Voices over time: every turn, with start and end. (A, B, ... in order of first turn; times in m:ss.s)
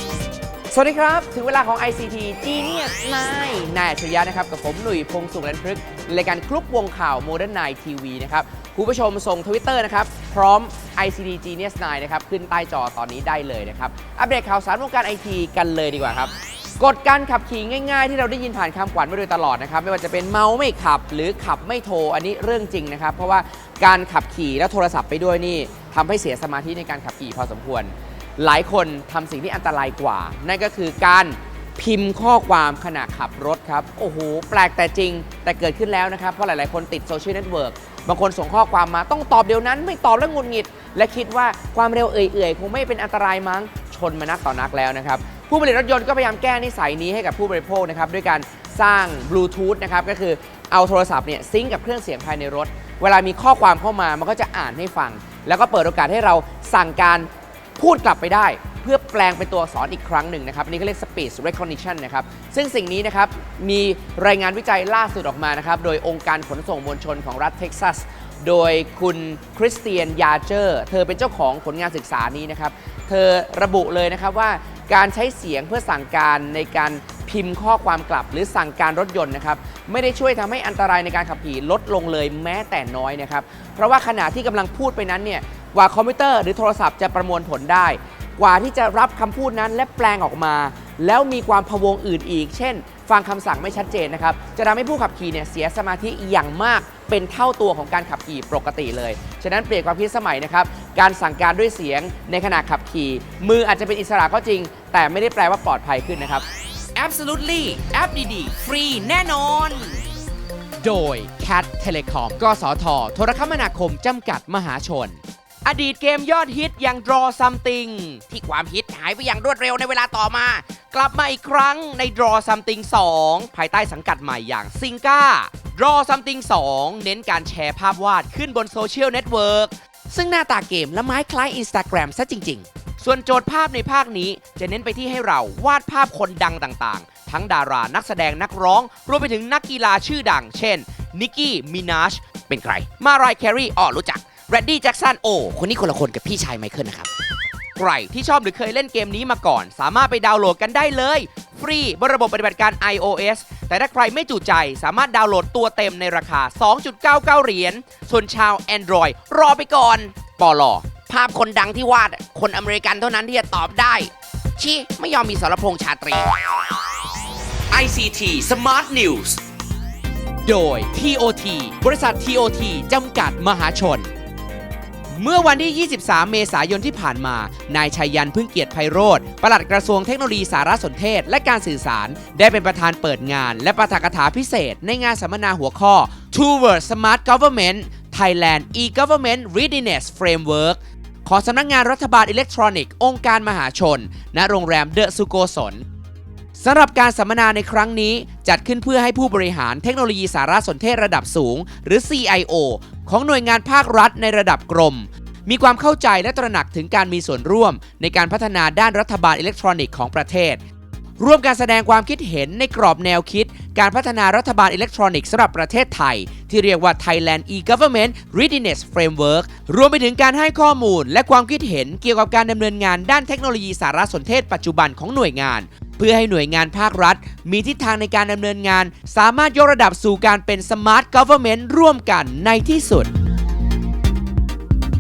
0:00.7-1:50.0 A
1:50.8-2:27.1 A
2:27.8-2:46.4 A
2:47.7-2:49.4 A
2:50.4-2:54.1 A
2:55.1-3:15.8 A
3:16.6-3:30.6 A
3:31.2-3:53.1 A